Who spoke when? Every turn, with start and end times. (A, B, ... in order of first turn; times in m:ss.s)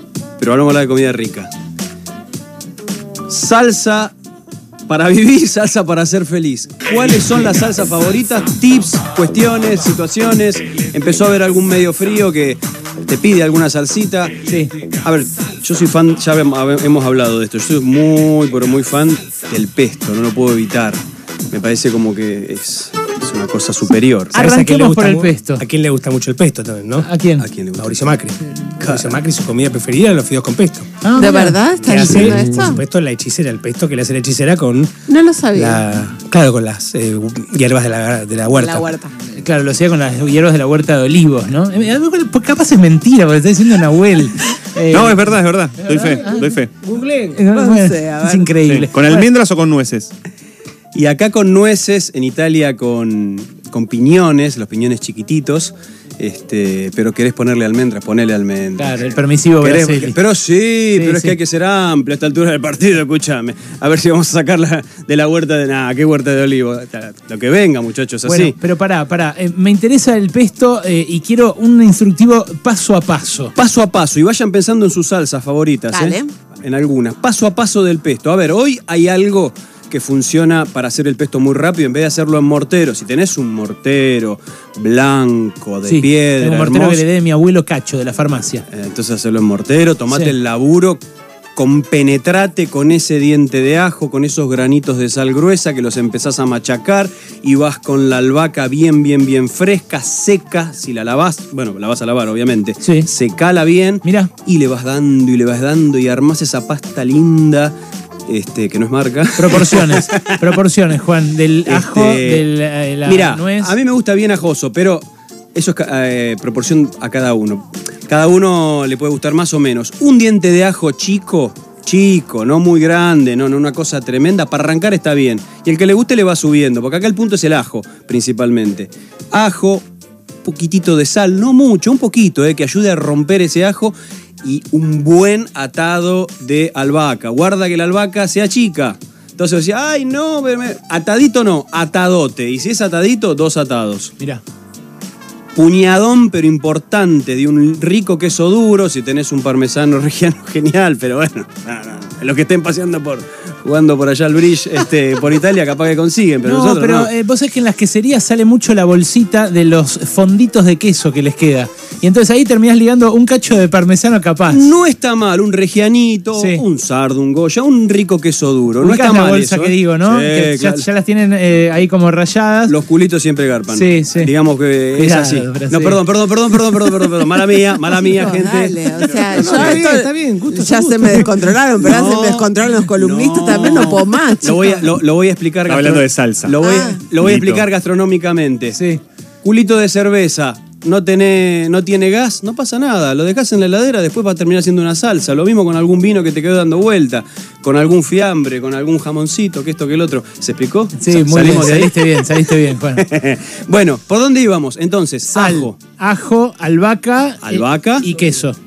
0:00.4-0:01.5 A
0:03.3-0:04.1 A
0:04.9-0:14.5 A
0:14.4-0:14.7 B
0:15.0-0:21.0 A
0:21.5-0:24.4 A
0:24.3-0:27.1 C
0:24.3-0:25.6 B
0:27.0-0:27.4 B
0:27.4-0:28.1 A
0:27.8-0:30.9 C
0:28.8-0:29.2 A
0:31.0-0:32.2 B
0:31.2-0:32.8 D
0:31.8-0:34.9 C
0:35.1-0:35.8 D
0:35.5-0:38.9 C
0:38.5-0:39.1 D
0:39.3-0:45.3 B
0:44.9-0:46.7 E
0:45.8-0:47.4 C
0:45.9-0:46.5 B
0:47.3-0:49.3 B
0:47.5-0:48.5 D
0:48.6-0:50.1 E
0:50.9-0:59.0 A
0:58.8-1:00.2 B
0:59.6-1:08.6 A
1:01.0-1:01.4 B
1:08.2-1:13.5 B
1:13.6-1:27.0 A
1:15.9-1:16.3 D
1:25.8-1:28.6 B
1:28.7-1:31.0 A
1:31.6-1:47.7 A
1:42.8-1:43.1 B
1:44.0-1:44.3 B
1:48.3-1:50.3 A
1:49.4-1:53.7 B
1:51.7-1:52.5 A
1:53.0-2:09.8 A
2:10.4-2:24.1 A
2:25.6-2:37.1 A
2:36.4-2:44.6 B
2:44.5-2:50.9 A
2:46.4-2:46.6 B
2:48.8-2:52.7 B
2:52.7-2:59.8 A
2:53.7-2:54.3 B
2:54.9-2:56.0 B
2:57.9-3:04.8 D
2:59.3-3:01.4 C
3:01.8-3:08.8 A
3:03.5-3:03.9 E
3:05.6-3:06.6 E
3:06.6-3:07.0 D
3:07.1-3:07.7 E
3:08.7-3:09.0 B
3:09.4-3:22.2 A
3:21.0-3:23.0 B
3:22.9-3:25.8 A
3:25.3-3:28.6 B
3:27.4-3:28.1 A